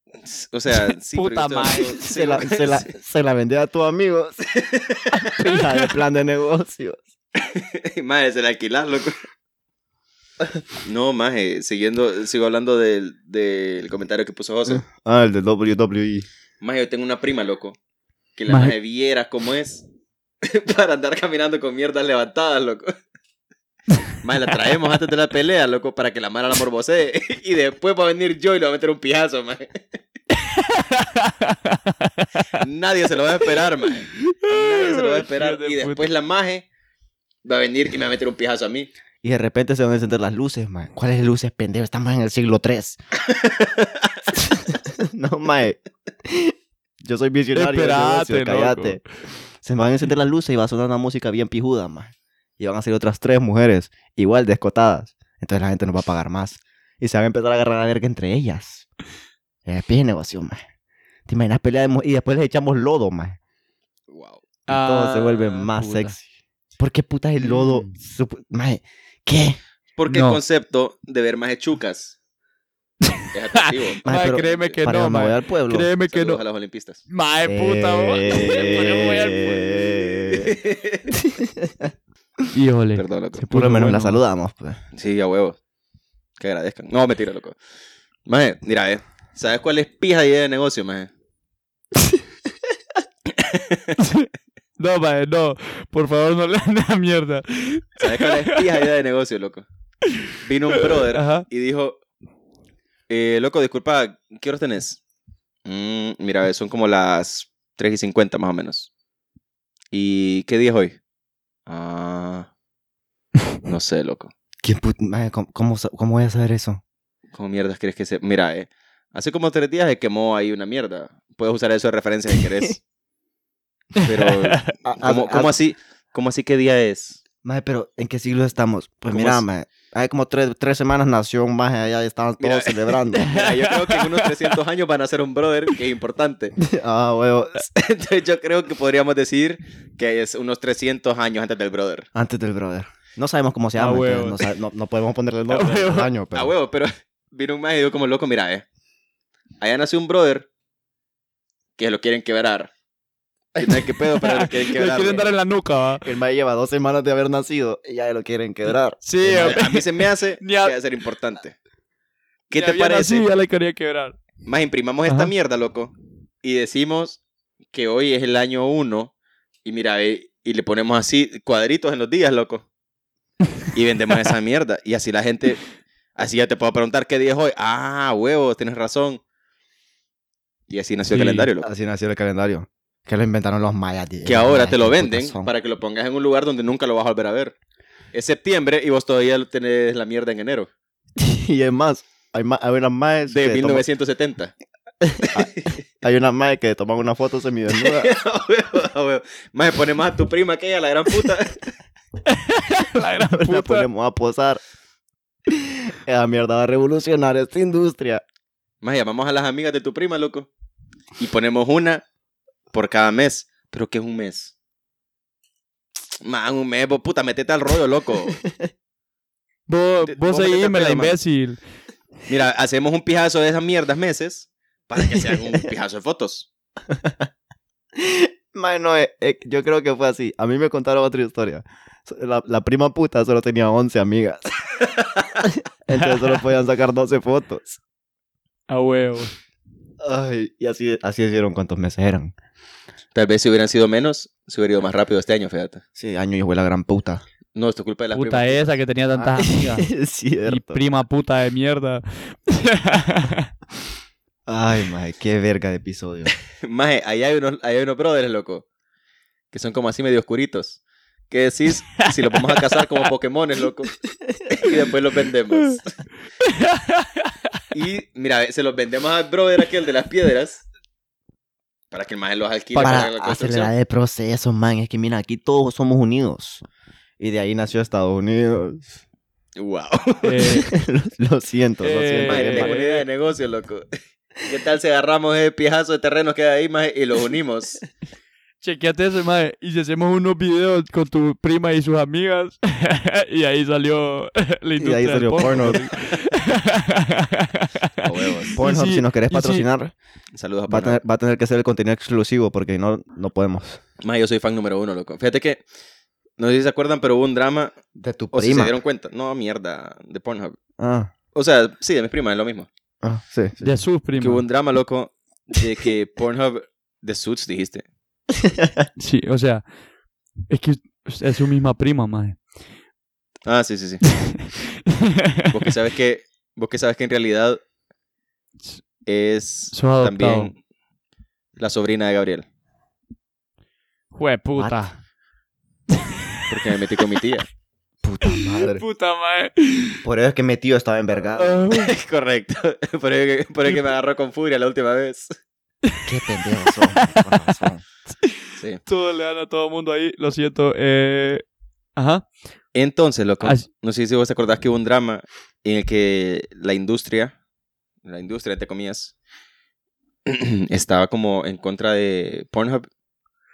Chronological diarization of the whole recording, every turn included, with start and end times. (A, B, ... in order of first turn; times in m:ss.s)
0:00.2-0:02.9 A
0:01.1-0:02.0 B
0:01.8-0:07.1 C
0:04.6-0:05.2 A
0:07.4-0:09.2 A
0:10.8-0:14.8 A
0:14.7-0:16.3 C
0:16.6-0:17.8 A
0:18.4-0:19.8 A
0:18.5-0:18.8 B
0:20.4-0:22.9 A
0:24.2-0:29.8 A
0:30.3-0:32.5 B
0:32.6-0:36.6 A
0:34.1-0:36.0 B
0:37.4-0:38.9 A
0:39.2-0:43.0 C
0:43.3-0:44.2 A
0:44.4-0:49.0 C
0:47.5-0:49.0 B
0:49.6-0:58.9 C
0:59.7-1:00.6 C
1:01.3-1:03.4 C
1:04.1-1:04.5 A
1:04.7-1:06.2 C
1:04.7-1:06.2 B
1:06.8-1:09.6 C
1:07.4-1:07.9 B
1:10.0-1:12.2 A
1:10.1-1:10.4 B
1:13.3-1:14.8 A
1:14.0-1:15.9 C
1:14.0-1:16.4 B
1:16.1-1:17.0 A
1:17.1-1:20.3 B
1:17.4-1:20.6 C
1:20.3-1:21.2 A
1:21.2-1:21.9 C
1:22.5-1:24.2 B
1:23.0-1:23.5 A
1:23.5-1:24.8 C
1:25.0-1:25.6 A
1:26.4-1:27.6 A
1:28.3-1:31.1 A
1:33.4-1:34.0 A
1:34.0-1:38.7 B
1:38.0-1:39.7 A
1:40.4-1:42.0 A
1:40.7-1:41.5 B
1:43.1-1:45.0 A
1:45.7-1:48.9 A
1:49.9-1:51.0 A
1:51.7-1:52.5 A
1:53.6-1:54.3 A
1:54.6-1:56.8 C
1:57.3-2:02.8 A
2:04.0-2:04.8 B
2:04.0-2:07.2 A
2:04.8-2:05.5 C
2:07.4-2:13.3 C
2:09.1-2:09.4 A
2:12.4-2:16.6 A
2:13.1-2:14.5 B
2:16.6-2:17.7 C
2:17.7-2:22.1 A
2:22.2-2:26.5 C
2:23.8-2:24.4 B
2:25.5-2:26.1 B
2:26.3-2:28.6 A
2:29.6-2:30.5 A
2:31.8-2:32.7 A
2:33.6-2:35.3 A
2:34.2-2:36.1 B
2:36.0-2:39.6 C
2:39.0-2:40.8 B
2:39.3-2:41.6 A
2:42.5-2:43.3 A
2:42.5-2:44.2 B
2:44.5-2:47.2 A
2:47.7-2:49.1 A
2:49.6-2:52.7 A
2:53.7-2:55.6 A
2:56.2-2:59.2 A
3:00.7-3:01.7 A
3:01.1-3:01.5 B
3:01.6-3:05.5 C
3:04.3-3:07.6 A
3:08.1-3:10.7 A
3:11.2-3:13.8 C
3:13.3-3:14.5 A
3:15.1-3:18.1 C
3:15.3-3:15.7 A
3:17.8-3:21.7 A
3:22.3-3:23.9 B
3:23.2-3:24.6 C
3:25.5-3:28.2 C
3:28.8-3:30.5 A
3:31.2-3:32.0 A
3:32.7-3:34.5 A
3:36.2-3:38.4 A
3:39.7-3:41.6 B
3:40.1-3:41.2 A
3:42.3-3:46.5 A
3:46.9-3:47.3 C
3:48.0-3:54.7 C
3:55.9-3:57.8 C
3:58.7-3:59.3 B
4:00.0-4:02.3 C
4:03.2-4:05.8 A
4:06.0-4:07.2 C
4:07.6-4:08.7 A
4:08.1-4:09.9 B
4:09.2-4:10.8 C
4:10.5-4:13.5 B
4:14.5-4:16.3 C
4:16.6-4:18.6 A
4:19.5-4:23.9 A
4:22.0-4:22.6 B
4:24.5-4:26.0 A
4:26.4-4:27.3 B
4:27.7-4:30.6 A
4:31.9-4:33.7 A
4:32.8-4:36.6 C
4:37.2-4:39.0 C
4:39.6-4:40.6 A
4:40.2-4:40.7 B
4:40.5-4:42.8 C
4:41.8-4:43.0 B
4:42.2-4:47.8 A
4:48.6-4:59.7 B
4:54.8-4:55.9 C
4:58.0-4:58.6 A
4:58.6-4:59.9 C
5:00.4-5:01.0 A
5:00.7-5:03.8 C
5:04.0-5:05.6 A
5:06.4-5:07.8 A
5:08.0-5:08.7 C
5:08.3-5:10.6 A
5:10.8-5:11.1 C
5:11.3-5:12.7 A
5:13.0-5:13.8 C
5:13.6-5:14.4 B
5:14.2-5:17.8 A
5:18.4-5:18.9 C
5:19.0-5:19.7 B
5:20.5-5:22.4 B
5:23.5-5:24.0 A
5:24.1-5:25.5 B
5:25.5-5:27.6 A
5:29.1-5:30.6 A
5:29.7-5:30.5 B
5:31.6-5:32.4 A
5:34.1-5:35.0 B
5:34.6-5:34.9 C
5:36.5-5:37.5 A
5:38.0-5:38.8 C
5:38.2-5:40.0 B
5:40.0-5:41.7 C
5:41.3-5:41.9 B
5:41.7-5:45.3 A
5:46.1-5:47.8 C
5:46.7-5:47.2 B
5:48.2-5:51.4 B
5:52.0-5:52.3 B
5:52.8-5:57.3 A
5:58.0-5:59.1 A
6:00.3-6:02.9 A